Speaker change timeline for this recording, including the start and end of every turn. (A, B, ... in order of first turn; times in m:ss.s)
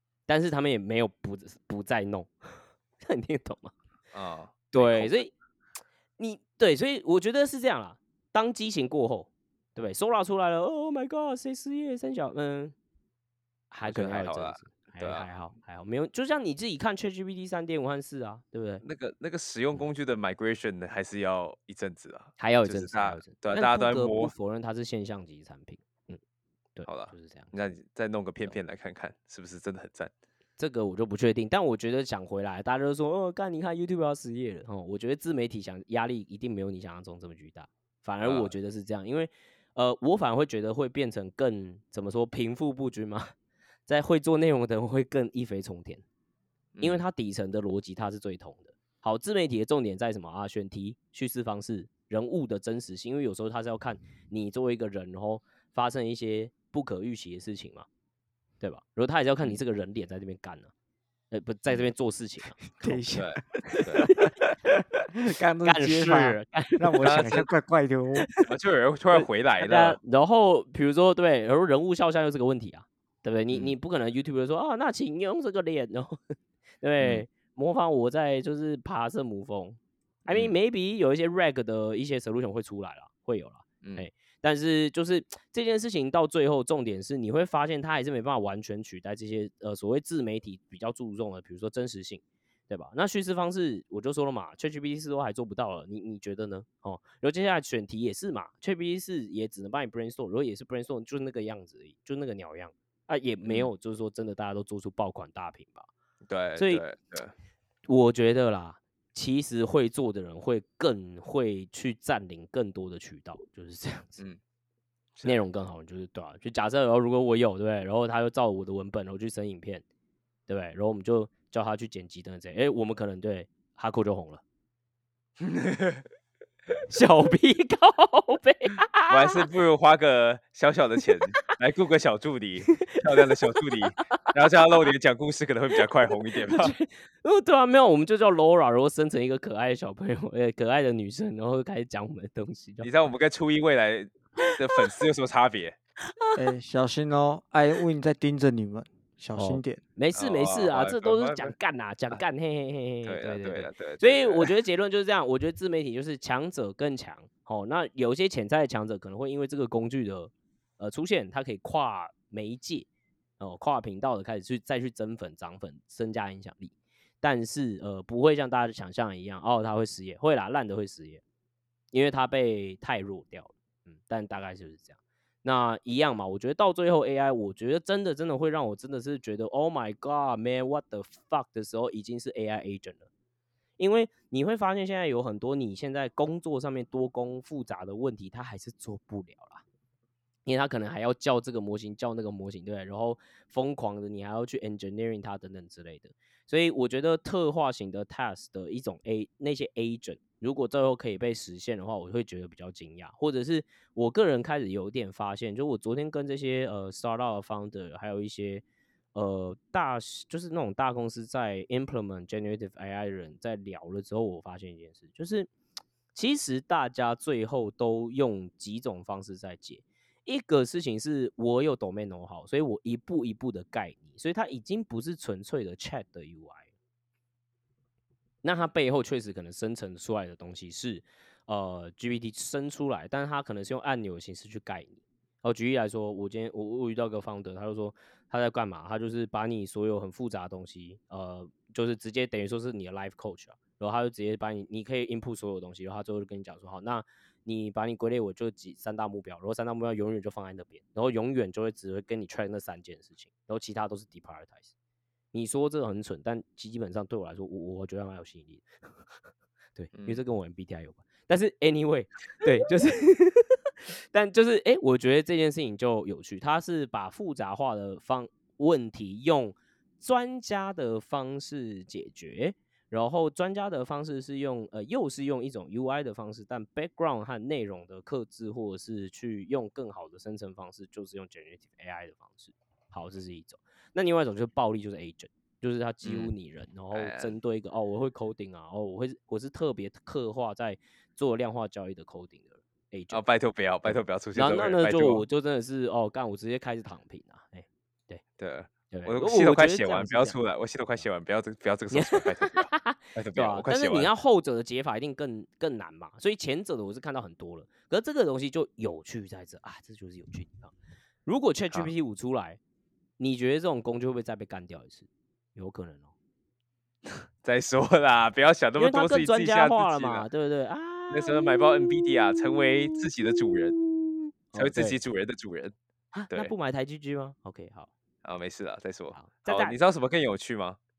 0:00.3-0:03.7 A
0:04.1-0:05.1 B
0:04.7-0:05.3 A
0:06.2-0:12.7 A
0:13.7-0:18.8 A
0:13.8-0:15.3 B
0:18.8-0:24.3 B
0:22.4-0:26.2 A
0:26.8-0:27.5 A
0:26.8-0:30.1 B
0:30.6-0:43.3 A
0:38.2-0:38.5 B
0:43.8-0:46.0 A
0:46.7-0:47.0 B
0:46.8-0:57.9 A
0:58.6-1:00.7 A
1:01.3-1:03.0 A
1:02.8-1:04.1 C
1:03.1-1:04.1 B
1:03.6-1:04.3 A
1:04.7-1:08.3 C
1:05.6-1:07.4 A
1:07.0-1:07.4 B
1:08.4-1:10.0 B
1:09.1-1:45.9 A
1:43.4-1:43.7 B
1:46.3-1:47.3 B
1:46.6-1:46.8 A
1:47.8-1:54.2 A
1:55.2-1:59.8 A
2:00.5-2:04.4 A
2:05.4-2:06.0 B
2:06.9-2:09.4 A
2:09.1-2:16.7 B
2:12.8-2:14.1 A
2:16.4-2:22.9 A
2:22.8-2:25.8 B
2:26.0-2:26.4 A
2:26.3-2:29.8 C
2:29.4-2:42.9 A
2:30.1-2:31.5 B
2:33.0-2:34.5 B
2:43.4-2:51.2 A
2:51.9-3:03.1 A
3:03.8-3:09.6 A
3:10.4-3:28.6 A
3:29.1-3:35.5 A
3:36.1-3:46.7 A
3:48.4-4:14.7 A
4:15.3-4:19.1 A
4:19.8-4:53.2 A
4:19.9-4:20.2 B
4:46.0-4:46.3 B
4:46.9-4:47.3 B
4:53.1-4:55.2 B
4:53.8-4:58.2 A
4:58.4-5:04.1 B
4:58.9-5:00.4 A
5:01.9-5:10.7 A
5:11.2-5:12.6 A
5:13.2-5:16.1 A
5:17.4-5:20.3 B
5:18.8-5:25.0 A
5:21.1-5:23.8 B
5:24.6-5:25.7 B
5:26.1-5:27.9 A
5:28.2-5:30.8 B
5:29.1-5:29.8 A